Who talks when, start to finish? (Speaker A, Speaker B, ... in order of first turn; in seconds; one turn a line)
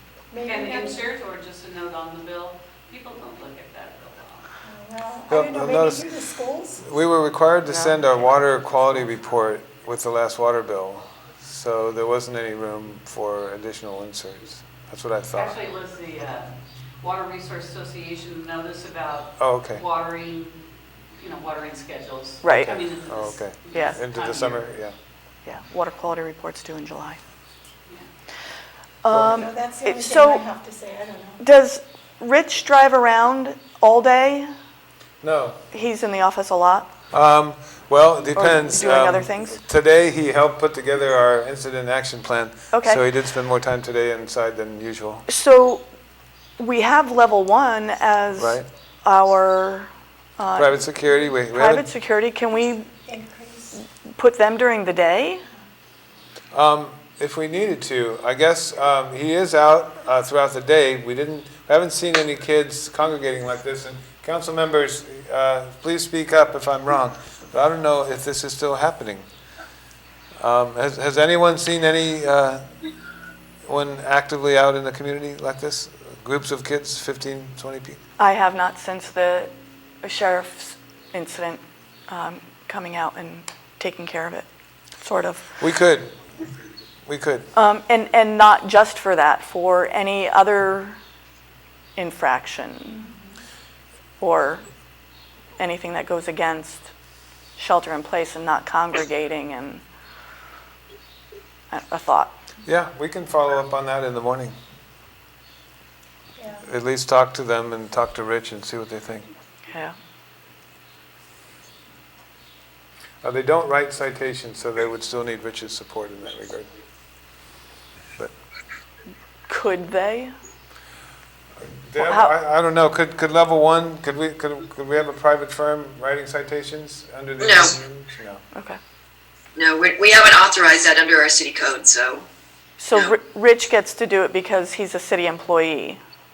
Speaker A: 0.3-1.0
Speaker B: 0.4-4.5
Speaker A: 4.6-6.9
Speaker C: 5.3-6.1
Speaker C: 6.8-15.6
Speaker D: 7.7-8.0
Speaker B: 15.3-20.6
Speaker C: 19.4-19.9
Speaker B: 21.2-24.7
Speaker D: 22.4-22.7
Speaker C: 22.5-24.9
Speaker D: 23.7-24.1
Speaker D: 25.5-27.2
Speaker D: 29.0-30.4
Speaker A: 29.2-31.4
Speaker D: 31.4-34.5
Speaker C: 35.2-35.6
Speaker D: 35.7-36.9
Speaker C: 37.1-45.3
Speaker D: 38.3-39.6
Speaker D: 42.7-43.0
Speaker D: 45.3-45.9
Speaker D: 46.6-50.9
Speaker C: 48.4-48.7
Speaker C: 50.6-51.9
Speaker D: 51.4-52.9
Speaker A: 53.1-53.8
Speaker D: 53.8-55.4
Speaker C: 56.5-69.3
Speaker C: 70.4-72.7
Speaker C: 73.7-78.0
Speaker D: 78.2-79.5
Speaker D: 80.0-84.5
Speaker D: 85.0-85.5
Speaker C: 85.6-86.2
Speaker C: 87.1-87.5
Speaker D: 87.5-91.0
Speaker D: 92.0-93.1
Speaker A: 93.0-93.3
Speaker D: 94.2-94.7
Speaker D: 95.6-96.9
Speaker D: 97.6-99.8
Speaker D: 101.7-102.4
Speaker C: 102.7-104.5
Speaker A: 106.4-106.7
Speaker C: 106.6-109.3
Speaker D: 109.7-110.0
Speaker C: 113.2-116.7
Speaker D: 119.5-120.3
Speaker C: 121.6-128.4
Speaker D: 122.0-122.3
Speaker E: 127.4-127.8
Speaker D: 128.5-128.8
Speaker E: 129.6-132.3
Speaker D: 132.8-136.0
Speaker E: 132.9-133.2